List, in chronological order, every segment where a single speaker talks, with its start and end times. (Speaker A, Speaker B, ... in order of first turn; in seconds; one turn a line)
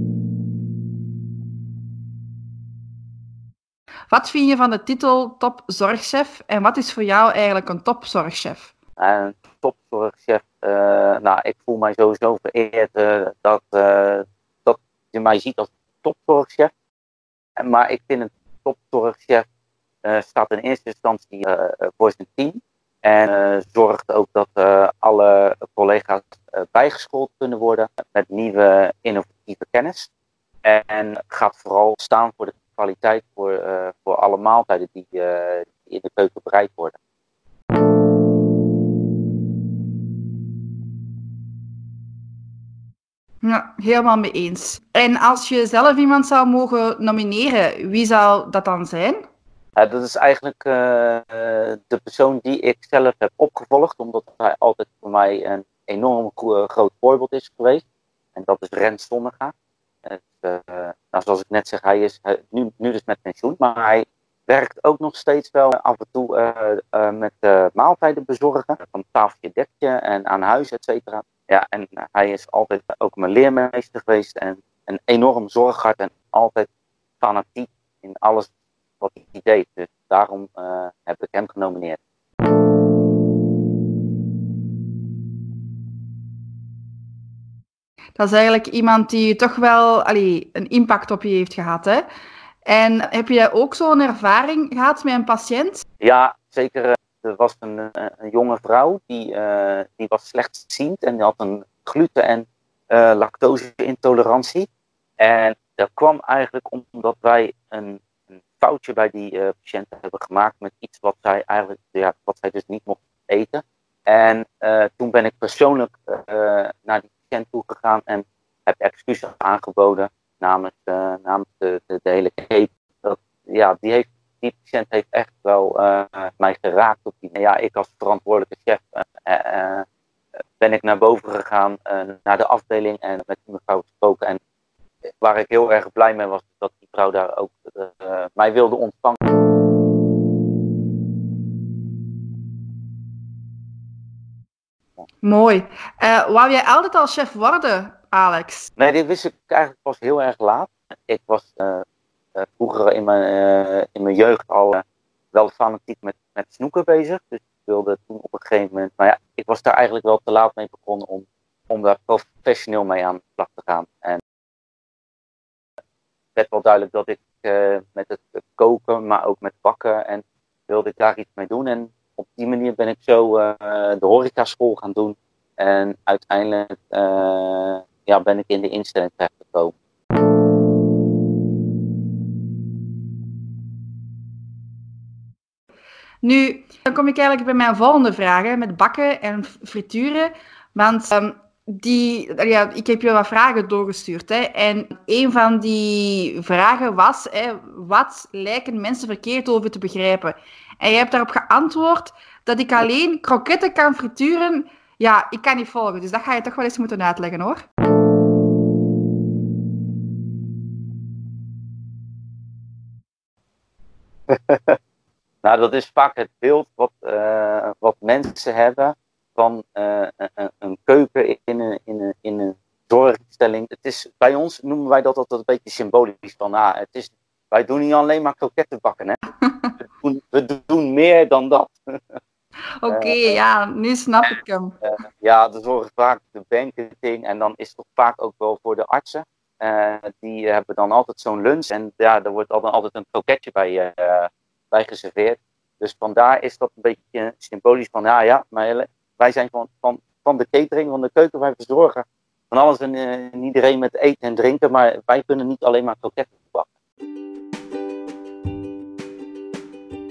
Speaker A: 4.1-8.7
Speaker B: 9.0-16.7
Speaker B: 17.6-19.5
Speaker B: 20.0-30.1
Speaker B: 30.6-37.0
Speaker A: 43.4-49.3
Speaker B: 49.8-57.8
Speaker B: 58.4-59.5
Speaker B: 60.0-76.7
Speaker B: 77.2-82.0
Speaker A: 88.2-92.1
Speaker A: 92.7-95.8
Speaker B: 96.0-104.7
Speaker B: 105.2-129.8
Speaker B: 130.6-134.4
Speaker B: 135.2-139.2
Speaker A: 145.2-148.7
Speaker B: 148.8-151.8
Speaker B: 152.4-164.2
Speaker B: 166.4-179.7
Speaker A: 186.2-207.7
Speaker B: 214.3-214.8
Speaker B: 215.4-229.2
Speaker A: 229.4-229.7
Speaker B: 229.8-232.2
Speaker A: 232.8-234.8
Speaker B: 232.9-233.4
Speaker B: 234.8-256.7